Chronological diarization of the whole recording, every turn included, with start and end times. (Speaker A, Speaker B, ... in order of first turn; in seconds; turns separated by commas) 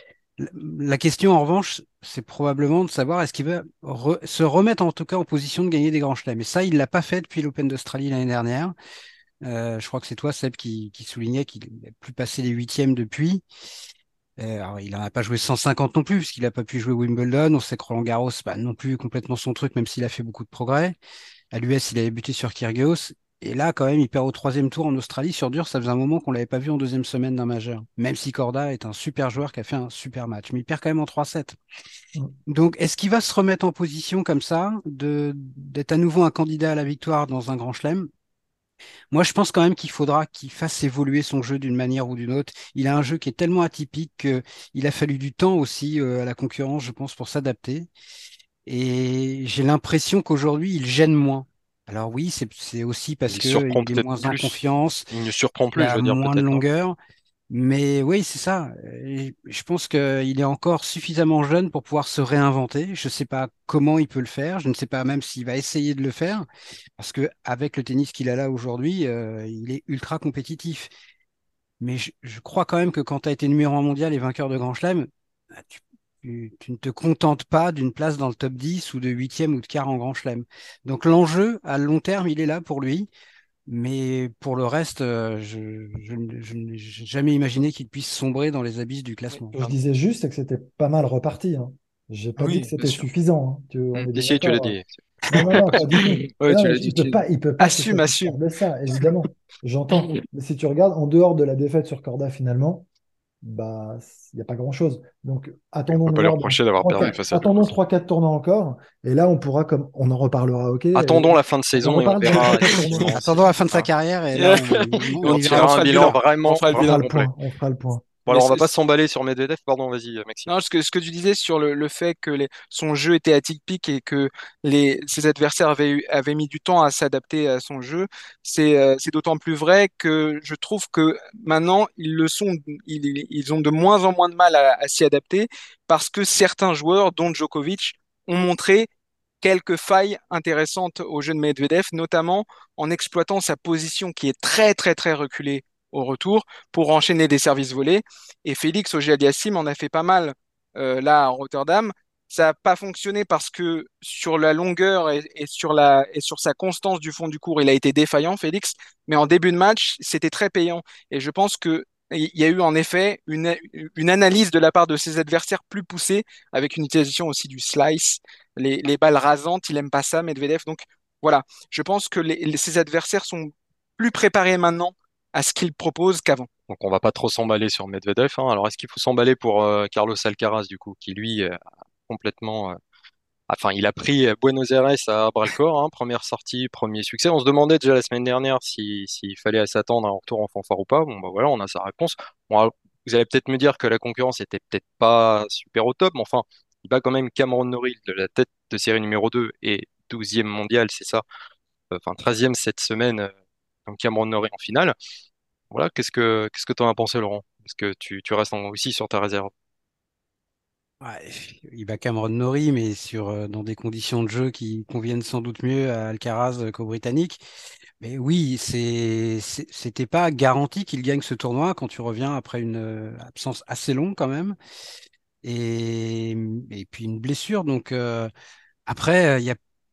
Speaker A: 0.4-8.7, Speaker A: 9.4-13.4, Speaker A: 14.4-20.9, Speaker A: 21.5-31.6, Speaker A: 32.5-38.1, Speaker A: 39.1-47.9, Speaker A: 48.6-55.1, Speaker B: 53.3-54.6, Speaker B: 55.1-56.6, Speaker A: 55.7-57.0, Speaker A: 57.5-66.5, Speaker A: 67.0-70.9, Speaker A: 71.8-83.1, Speaker A: 83.7-89.5, Speaker C: 89.5-94.8, Speaker D: 92.4-93.0, Speaker B: 94.1-95.4, Speaker C: 95.3-102.8, Speaker D: 95.3-98.3, Speaker C: 103.4-113.4, Speaker B: 105.9-107.7, Speaker B: 110.9-113.8, Speaker D: 112.2-112.9, Speaker A: 113.1-116.1, Speaker D: 114.3-117.1, Speaker B: 115.2-117.3, Speaker C: 116.7-118.1, Speaker B: 118.2-120.5, Speaker D: 118.3-118.7, Speaker D: 120.5-138.9, Speaker D: 139.4-176.5, Speaker B: 176.7-182.8, Speaker B: 183.5-201.2, Speaker B: 201.9-203.3, Speaker B: 203.8-204.9, Speaker B: 205.7-209.5, Speaker A: 211.0-217.4, Speaker A: 218.0-224.6, Speaker A: 225.4-228.3, Speaker A: 228.8-229.6